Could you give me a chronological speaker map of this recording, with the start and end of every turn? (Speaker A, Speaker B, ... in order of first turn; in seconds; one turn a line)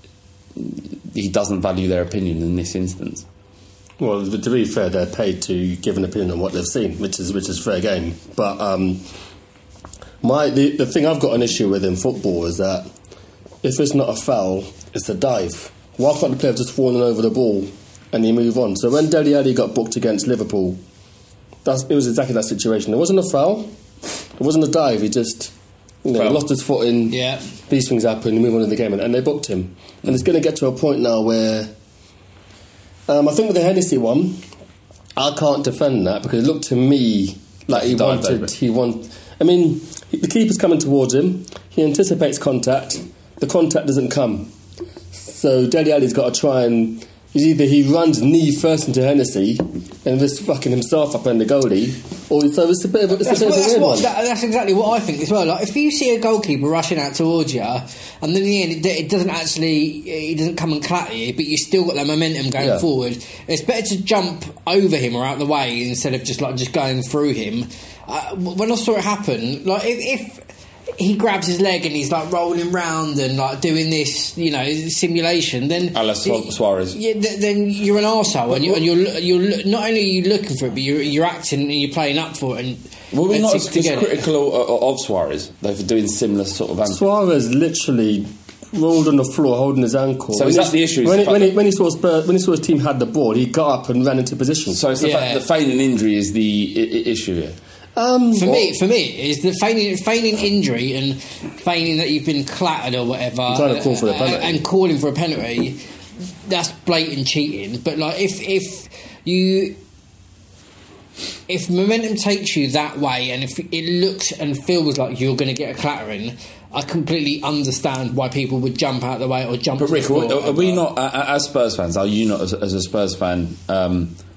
Speaker A: 0.6-3.2
Speaker B: 4.0-9.0
Speaker B: 10.2-12.9
Speaker B: 13.6-20.8
Speaker B: 21.6-23.8
Speaker B: 24.4-31.7
Speaker A: 26.1-26.4
Speaker C: 27.1-27.4
Speaker B: 33.1-34.5
Speaker B: 35.2-44.5
Speaker A: 37.7-38.5
Speaker B: 45.1-54.1
Speaker C: 53.1-84.2
Speaker A: 75.9-77.0
Speaker A: 83.1-87.0
Speaker B: 86.8-94.8
Speaker A: 90.3-91.5
Speaker A: 94.7-97.6
Speaker C: 95.0-95.4
Speaker B: 98.0-98.5
Speaker C: 98.3-105.8
Speaker B: 103.5-104.6
Speaker C: 106.5-109.8
Speaker C: 111.5-120.8
Speaker A: 119.8-124.2